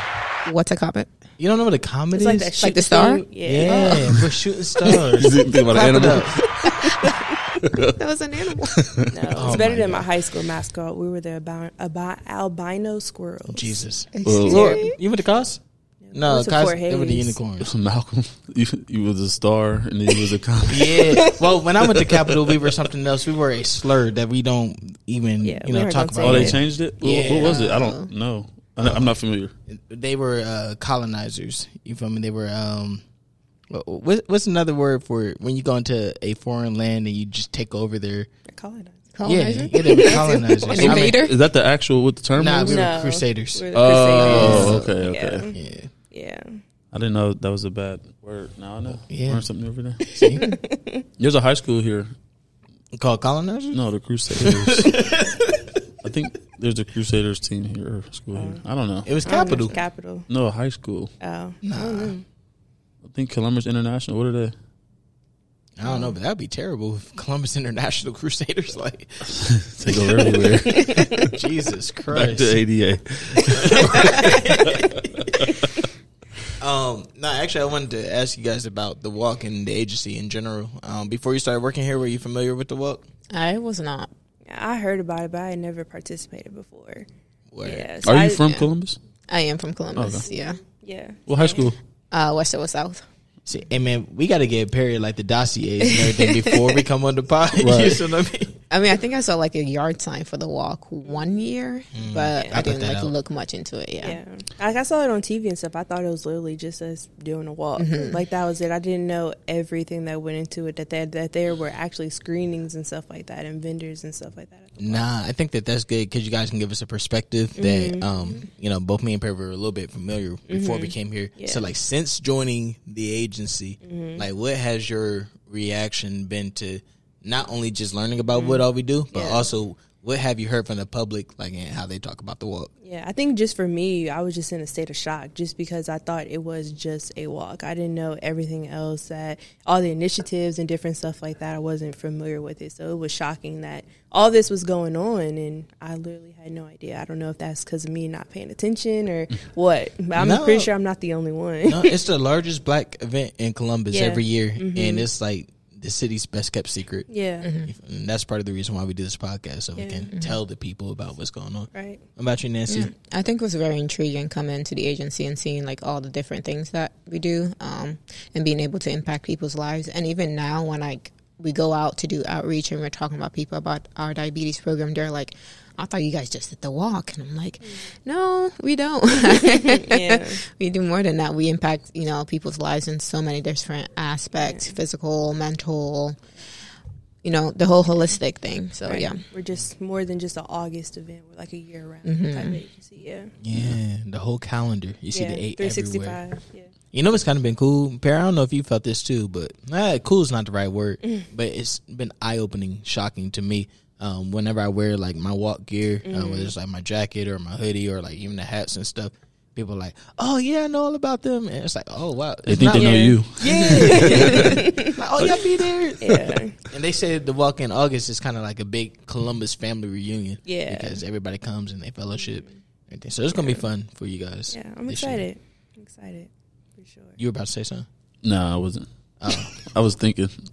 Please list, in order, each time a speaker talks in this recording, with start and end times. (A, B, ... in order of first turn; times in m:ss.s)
0:00.4-0:01.1 A
0:01.4-0:02.6 B
0:02.1-0:04.0 C
0:02.6-0:04.2 A
0:03.4-0:06.4 B
0:04.9-0:08.0 D
0:06.7-0:07.0 A
0:07.9-0:08.9 A
0:08.6-0:09.6 D
0:09.1-0:13.8 C
0:09.3-0:10.1 B
0:13.5-0:15.6 B
0:14.1-0:15.0 A
0:14.2-0:14.8 D
0:16.0-0:17.4 C
0:16.1-0:17.7 B
0:17.6-0:22.7 D
0:20.7-0:27.7 B
0:25.4-0:26.6 C
0:26.2-0:29.5 D
0:27.2-0:28.1 A
0:28.8-0:29.1 B
0:29.7-0:33.0 B
0:33.7-0:38.3 B
0:38.5-0:39.2 C
0:39.1-0:41.4 A
0:39.2-0:41.2 B
0:39.8-0:41.0 C
0:40.7-0:42.9 D
0:42.4-0:43.7 B
0:42.6-0:45.6 C
0:43.7-0:45.5 D
0:44.2-0:44.8 B
0:44.2-0:44.9 A
0:45.5-0:45.9 B
0:46.1-0:46.6 C
0:46.9-0:50.1 D
0:49.1-0:49.4 B
0:50.1-0:50.4 B
0:50.3-0:51.0 C
0:51.2-0:52.1 D
0:52.9-0:55.7 B
0:53.7-0:55.1 D
0:56.0-0:59.2 D
0:58.3-0:58.6 C
0:59.0-0:59.8 B
0:59.2-1:00.3 C
1:00.3-1:01.1 D
1:01.2-1:02.2 C
1:01.6-1:02.2 B
1:03.0-1:04.5 D
1:05.8-1:09.4 B
1:09.3-1:11.3 D
1:09.9-1:12.6 B
1:10.6-1:11.2 C
1:12.1-1:15.5 D
1:13.5-1:15.5 B
1:16.6-1:23.0 B
1:23.3-1:24.1 A
1:24.5-1:27.1 C
1:27.5-1:27.9 B
1:27.6-1:28.6 C
1:28.0-1:29.0 D
1:29.3-1:30.6 A
1:30.0-1:30.2 D
1:30.3-1:31.7 C
1:31.3-1:31.8 D
1:32.1-1:33.0 A
1:33.5-1:38.6 B
1:37.6-1:38.0 D
1:38.7-1:44.2 A
1:41.9-1:43.1 B
1:42.3-1:42.6 C
1:44.0-1:55.0 C
1:47.8-1:48.2 A
1:54.8-2:12.7 B
1:57.6-1:58.4 C
2:00.5-2:01.6 C
2:03.8-2:04.2 C
2:08.3-2:09.5 C
2:12.8-2:31.9 C
2:30.2-2:30.7 B
2:31.6-2:42.9 B
2:33.9-2:35.0 C
2:37.1-2:37.5 C
2:37.4-2:37.7 A
2:39.8-2:40.1 C
2:40.1-2:40.4 A
2:41.7-2:42.0 C
2:42.7-3:06.2 A
2:59.3-3:00.4 C
3:04.4-3:04.8 C
3:07.2-3:09.2 A
3:08.8-3:13.3 C
3:12.0-3:12.6 A
3:13.4-3:16.2 B
3:13.5-3:13.8 D
3:15.1-3:16.7 C
3:16.9-3:45.2 B
3:26.0-3:26.5 C
3:32.5-3:34.6 D
3:32.7-3:35.0 C
3:35.2-3:35.5 D
3:36.0-3:36.6 C
3:40.4-3:41.0 C
3:42.2-3:42.6 C
3:43.3-3:43.6 C
3:44.5-3:47.2 C
3:47.2-3:47.9 B
3:48.2-3:50.3 D
3:49.2-3:49.5 B